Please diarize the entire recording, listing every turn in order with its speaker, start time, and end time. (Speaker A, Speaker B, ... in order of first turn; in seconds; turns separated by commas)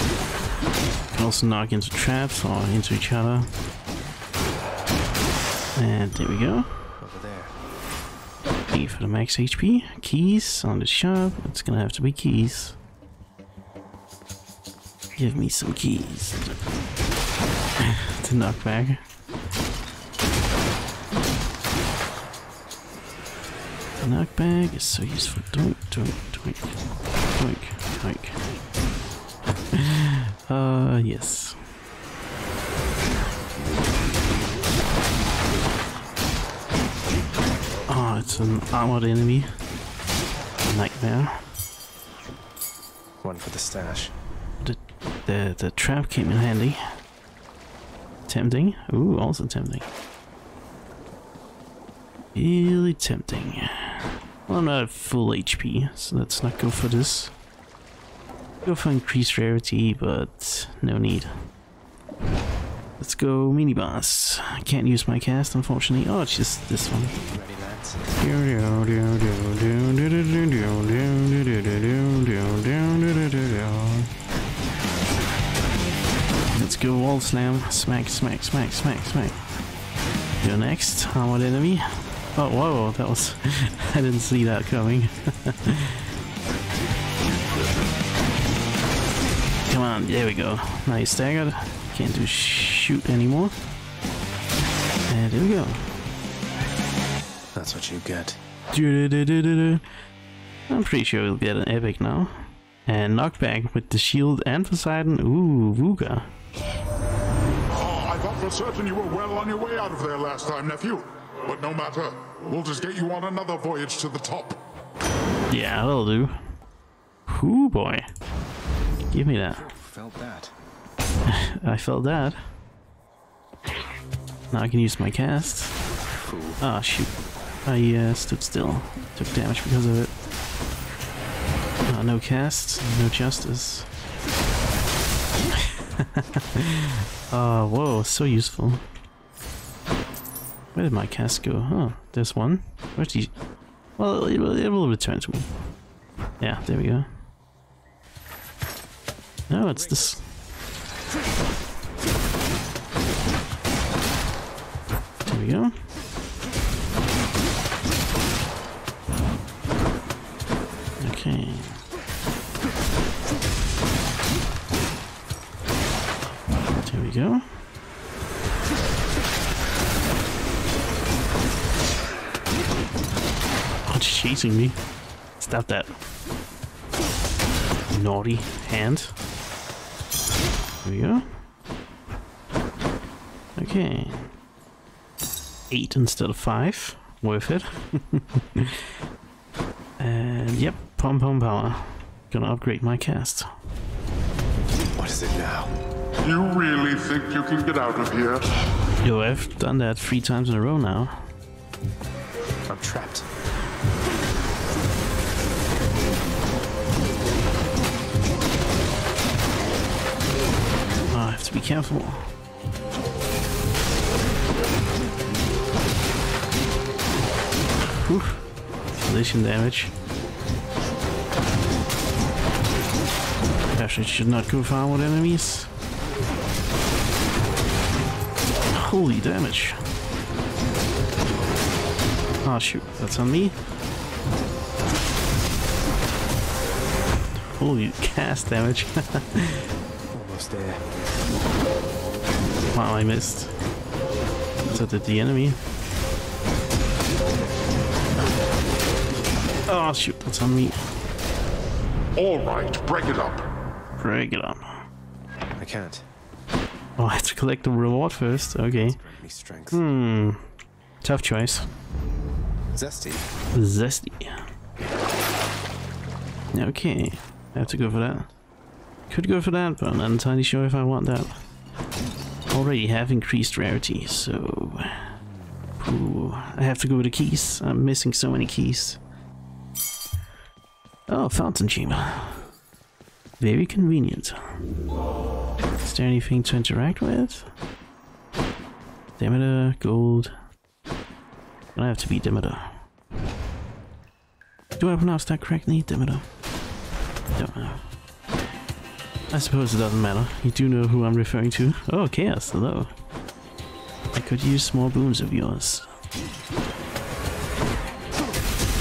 Speaker A: 1.1-3.5, Speaker A: 5.8-6.7, Speaker B: 7.0-7.5, Speaker A: 8.7-12.8, Speaker A: 15.2-16.6, Speaker A: 17.8-19.0, Speaker A: 24.0-26.7, Speaker A: 27.3-28.4, Speaker A: 29.7-31.6, Speaker A: 37.9-39.5, Speaker A: 40.7-41.4, Speaker B: 43.2-44.1, Speaker A: 44.6-47.0, Speaker A: 48.3-49.9, Speaker A: 52.3-57.3, Speaker A: 58.6-61.3, Speaker A: 63.0-67.2, Speaker B: 67.2-68.0, Speaker A: 68.2-74.1, Speaker A: 76.5-79.5, Speaker A: 80.4-86.0, Speaker A: 89.7-93.5, Speaker A: 95.1-95.8, Speaker B: 97.5-98.4, Speaker A: 98.7-99.8, Speaker A: 100.7-106.3, Speaker C: 107.7-114.6, Speaker A: 115.5-116.4, Speaker A: 117.3-118.0, Speaker A: 119.1-119.7, Speaker B: 119.5-120.5, Speaker A: 121.3-122.4, Speaker A: 124.5-125.8, Speaker B: 126.1-126.6, Speaker A: 126.6-127.1, Speaker A: 127.6-130.1, Speaker A: 131.9-133.9, Speaker A: 135.6-138.8, Speaker A: 140.7-143.3, Speaker A: 144.0-145.5, Speaker A: 146.4-147.1, Speaker A: 149.5-150.2, Speaker A: 155.3-155.8, Speaker A: 161.0-161.8, Speaker A: 166.8-167.5, Speaker A: 173.8-174.8, Speaker A: 175.4-176.0, Speaker A: 177.9-179.1, Speaker A: 180.8-181.3, Speaker A: 183.6-184.3, Speaker A: 185.7-188.8, Speaker A: 190.0-193.5, Speaker B: 195.0-195.7, Speaker C: 196.2-198.4, Speaker A: 199.0-201.2, Speaker B: 202.7-203.3, Speaker A: 211.1-212.3, Speaker A: 217.9-219.9, Speaker A: 223.7-225.7, Speaker A: 228.7-229.8, Speaker A: 232.4-233.6, Speaker A: 237.5-239.7, Speaker B: 240.1-240.8, Speaker A: 242.7-243.5, Speaker A: 244.7-245.6, Speaker A: 249.7-250.8, Speaker C: 252.2-253.4, Speaker A: 254.0-254.8, Speaker B: 255.6-256.0, Speaker A: 257.0-259.0, Speaker B: 258.6-259.8, Speaker A: 259.7-260.5, Speaker A: 261.0-261.7, Speaker B: 262.7-263.3, Speaker A: 263.5-264.5, Speaker A: 266.5-268.3, Speaker A: 269.1-271.4, Speaker A: 272.5-275.1, Speaker A: 275.8-279.0, Speaker A: 281.1-282.4, Speaker A: 283.4-284.4, Speaker A: 285.8-287.5, Speaker A: 289.2-290.3, Speaker A: 291.8-292.8, Speaker A: 294.8-296.2, Speaker A: 297.3-297.8, Speaker A: 299.3-302.9, Speaker A: 304.1-305.9